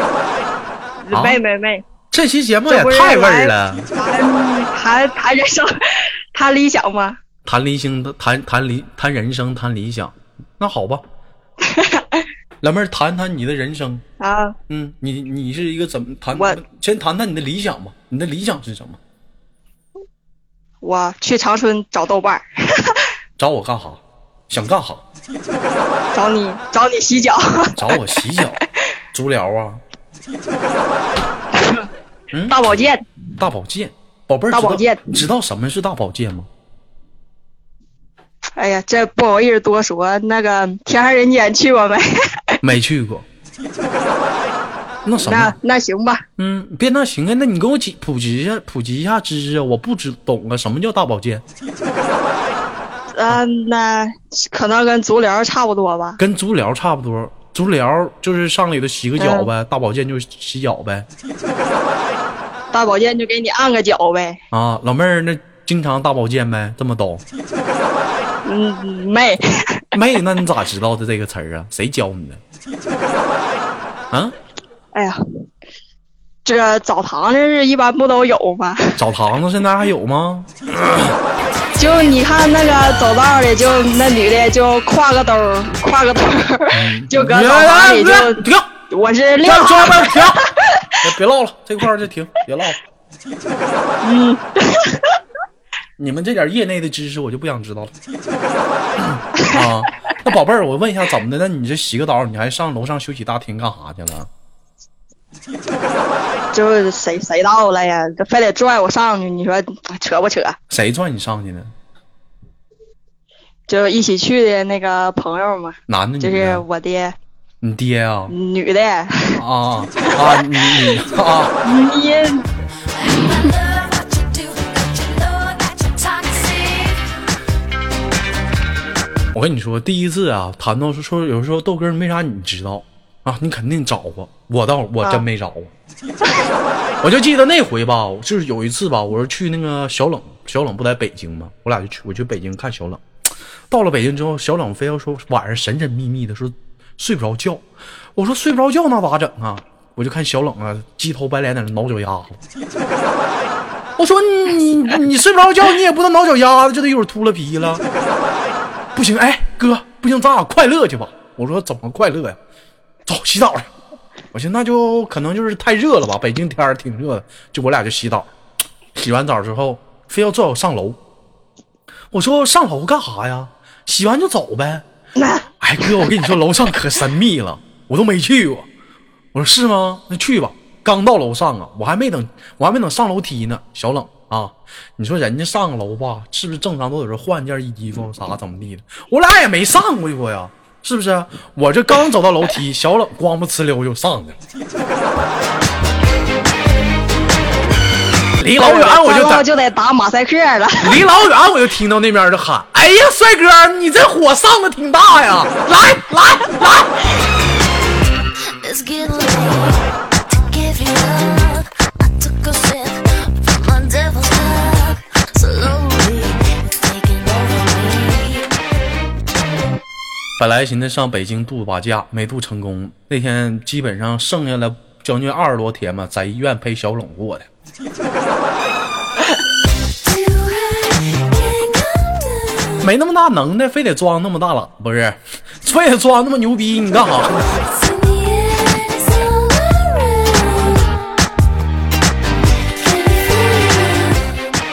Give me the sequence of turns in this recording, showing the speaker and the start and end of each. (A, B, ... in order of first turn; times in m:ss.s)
0:01.0-0:01.8 A
0:01.1-0:01.4 B
0:02.1-0:03.9 B
0:02.7-0:07.2 A
0:07.4-0:11.0 B
0:11.6-0:12.3 A
0:12.6-0:14.0 B
0:14.2-0:14.6 A
0:14.7-0:19.0 B
0:20.8-0:23.0 A
0:23.4-0:25.0 B
0:26.1-0:27.8 A
0:27.8-0:28.6 B
0:29.1-0:29.8 B
0:31.5-0:31.9 A
0:32.3-0:32.6 B
0:32.5-0:33.0 A
0:33.4-0:36.5 B
0:34.5-0:35.0 A
0:38.6-0:42.6 A
0:42.6-0:43.2 B
0:45.0-0:45.6 B
0:45.2-0:46.2 A
0:46.4-0:51.4 B
0:53.1-0:56.2 A
0:56.2-1:01.1 B
0:59.2-0:59.5 A
1:02.7-1:04.4 A
1:04.5-1:07.2 B
1:08.4-1:09.8 A
1:09.9-1:12.4 B
1:16.4-1:19.0 A
1:19.0-1:21.2 B
1:21.8-1:31.0 A
1:26.7-1:28.7 B
1:29.4-1:30.4 B
1:31.0-1:32.8 B
1:34.0-1:35.1 A
1:36.0-1:37.9 B
1:39.0-1:44.3 B
1:46.5-1:50.6 A
1:50.7-1:51.7 B
1:53.7-1:57.2 A
1:55.9-1:56.6 B
1:57.6-1:58.3 B
1:58.3-1:59.4 A
1:59.3-2:01.6 B
2:00.0-2:00.9 A
2:01.6-2:02.5 A
2:03.1-2:03.5 A
2:03.1-2:07.1 C
2:09.3-2:15.7 B
2:17.0-2:23.0 B
2:23.7-2:32.4 B
2:34.0-2:37.8 B
2:38.9-2:42.4 B
2:43.0-2:43.7 B
2:44.3-2:48.3 B
2:49.0-2:51.0 B
2:52.1-2:54.8 B
2:55.2-2:56.1 A
2:55.6-2:58.7 B
2:59.3-3:14.4 B
3:18.4-3:19.4 B
3:18.6-3:21.0 A
3:20.8-3:27.1 B
3:28.4-3:38.6 C
3:40.4-3:47.5 B
3:50.0-3:52.8 C
3:52.8-3:57.4 B
3:57.5-4:01.1 C
4:02.8-4:04.2 C